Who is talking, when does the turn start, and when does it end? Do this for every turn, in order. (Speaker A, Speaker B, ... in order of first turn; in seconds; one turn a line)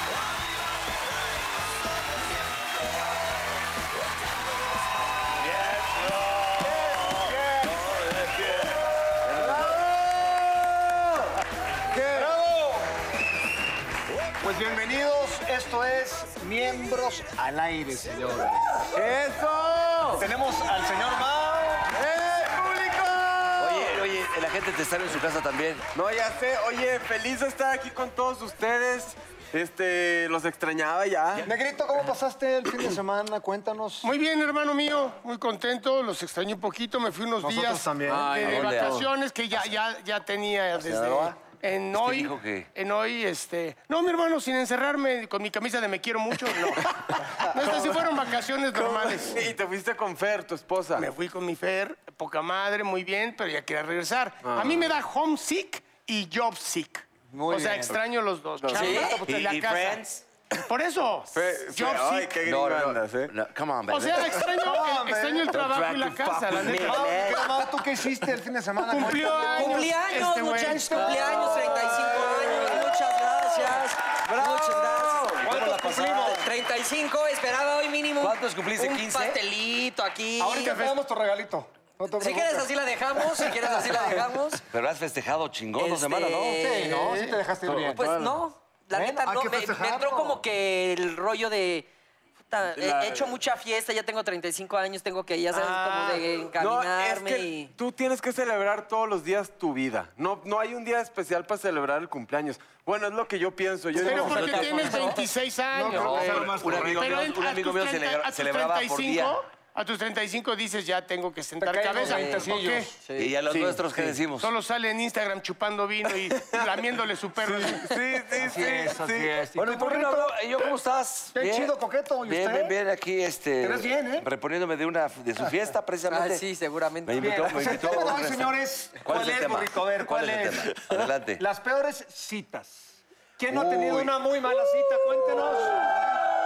Speaker A: 5.4-9.8
Speaker B: 7.0-7.8
Speaker B: 9.4-11.2
Speaker C: 11.9-12.3
Speaker B: 12.1-12.9
Speaker B: 14.4-18.6
Speaker C: 18.9-20.2
Speaker B: 20.1-21.9
Speaker C: 21.9-24.1
Speaker A: 23.6-25.8
Speaker C: 25.9-31.5
Speaker B: 31.4-34.1
Speaker D: 34.0-49.5
Speaker B: 37.4-38.6
Speaker C: 38.1-39.1
Speaker A: 38.4-39.0
Speaker A: 40.8-41.3
Speaker A: 41.9-42.7
Speaker C: 47.6-47.9
Speaker C: 48.7-51.1
Speaker D: 51.0-60.0
Speaker C: 54.4-55.0
Speaker B: 57.3-58.0
Speaker C: 58.6-59.2
Speaker E: 58.7-59.2
Speaker A: 59.0-60.2
Speaker D: 60.7-62.4
Speaker C: 61.3-63.3
Speaker A: 62.4-64.5
Speaker D: 63.9-67.3
Speaker B: 64.5-65.6
Speaker A: 65.5-67.7
Speaker B: 66.5-69.8
Speaker C: 66.8-67.0
Speaker D: 68.8-71.1
Speaker E: 69.4-75.5
Speaker B: 70.7-72.8
Speaker C: 71.0-72.8
Speaker B: 75.0-76.5
Speaker A: 75.3-76.4
Speaker E: 76.1-81.0
Speaker A: 78.2-79.4
Speaker B: 80.4-82.7
Speaker E: 82.2-84.6
Speaker B: 83.2-84.2
Speaker A: 84.7-86.8
Speaker E: 85.8-87.4
Speaker B: 86.6-88.1
Speaker C: 87.6-88.4
Speaker E: 88.0-91.9
Speaker B: 88.9-90.4
Speaker E: 92.5-97.7
Speaker C: 92.7-93.3
Speaker B: 95.8-96.2
Speaker C: 96.6-104.8
Speaker B: 103.9-107.3
Speaker D: 104.0-112.9
Speaker A: 104.0-105.2
Speaker A: 105.9-109.4
Speaker B: 111.6-112.9
Speaker E: 112.0-112.5
Speaker E: 113.0-113.3
Speaker A: 113.2-114.5
Speaker C: 113.5-114.2
Speaker D: 114.4-118.0
Speaker C: 116.4-116.7
Speaker C: 117.4-119.4
Speaker B: 118.4-120.3
Speaker A: 119.6-121.7
Speaker B: 121.3-122.8
Speaker A: 122.3-126.4
Speaker B: 123.6-124.3
Speaker E: 126.1-128.0
Speaker A: 127.0-131.4
Speaker B: 127.2-135.9
Speaker A: 133.5-134.1